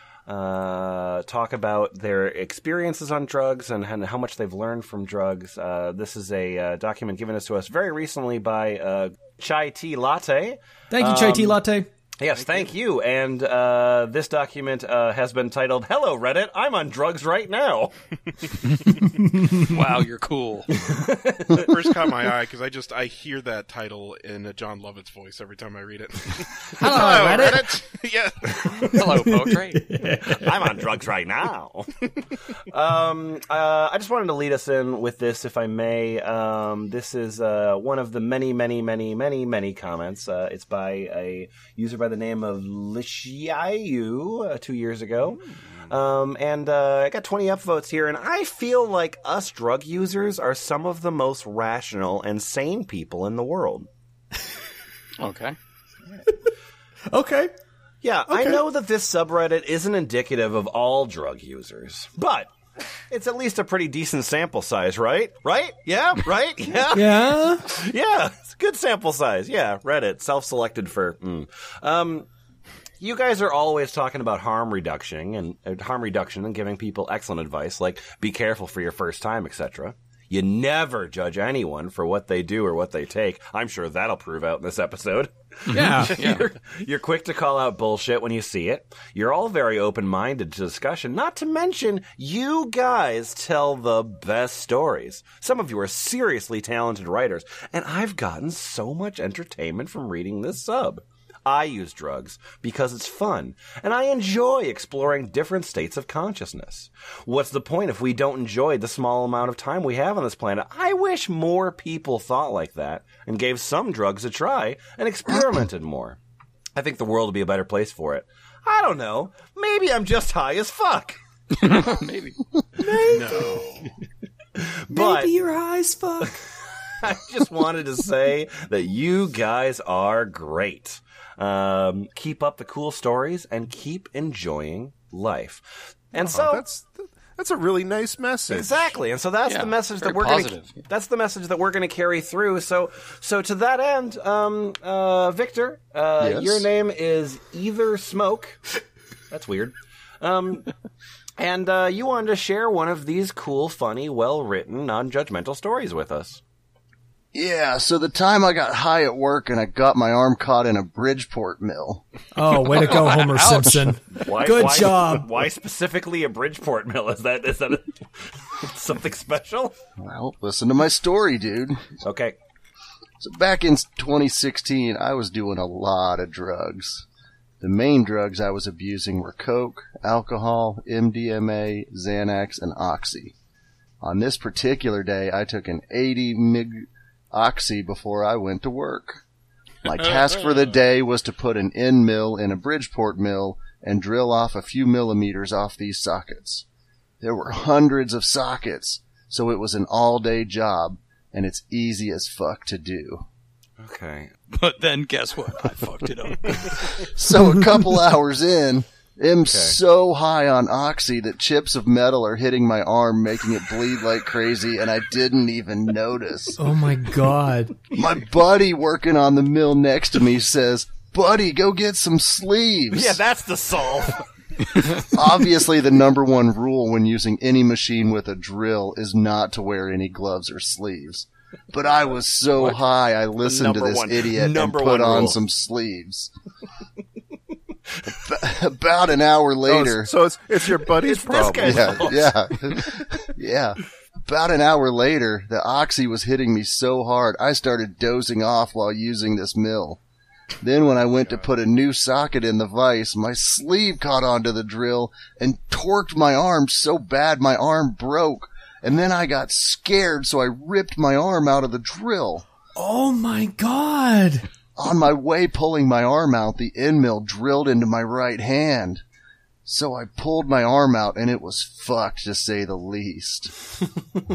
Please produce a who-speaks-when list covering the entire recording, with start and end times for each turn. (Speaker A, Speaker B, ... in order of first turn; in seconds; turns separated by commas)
Speaker A: 0.3-11.6, Speaker B: 10.9-11.9, Speaker A: 12.2-17.9, Speaker C: 12.4-12.7, Speaker B: 19.2-19.8, Speaker D: 19.6-20.7, Speaker A: 20.7-21.8, Speaker C: 21.5-29.0, Speaker B: 26.7-27.7, Speaker D: 28.8-29.9, Speaker B: 29.1-30.5, Speaker A: 30.1-31.9, Speaker A: 32.7-53.9, Speaker D: 55.2-55.6, Speaker B: 57.1-57.5, Speaker A: 58.0-62.5, Speaker B: 58.3-58.6, Speaker A: 63.1-72.3, Speaker B: 66.9-67.7, Speaker A: 73.0-116.2, Speaker B: 85.7-86.3, Speaker D: 85.7-86.4, Speaker A: 116.8-121.2, Speaker D: 121.5-122.4, Speaker B: 122.8-123.5, Speaker A: 122.8-123.6, Speaker C: 123.1-123.9, Speaker A: 124.6-125.3, Speaker B: 124.9-126.4, Speaker A: 127.0-136.6, Speaker E: 136.2-138.7, Speaker A: 138.5-148.6, Speaker D: 139.5-140.8, Speaker F: 146.2-146.7, Speaker A: 149.3-150.7, Speaker A: 151.4-156.4, Speaker F: 157.3-162.0, Speaker B: 162.3-165.3, Speaker D: 162.7-163.9, Speaker A: 164.2-169.8, Speaker F: 170.0-171.9, Speaker A: 172.0-172.3, Speaker F: 173.2-177.1, Speaker F: 177.6-183.3, Speaker F: 184.0-189.2, Speaker F: 189.8-196.7, Speaker F: 197.2-203.2, Speaker A: 203.8-204.3, Speaker D: 204.5-206.9, Speaker F: 207.0-216.6, Speaker A: 209.4-209.8, Speaker B: 216.6-217.8, Speaker F: 217.9-223.2, Speaker A: 222.9-224.2, Speaker F: 224.9-236.3, Speaker A: 233.4-235.4, Speaker F: 238.1-240.1, Speaker E: 239.7-242.0, Speaker A: 240.9-242.4, Speaker F: 241.6-250.0, Speaker F: 250.6-262.4, Speaker B: 262.8-264.5, Speaker F: 264.8-269.0, Speaker F: 269.6-273.5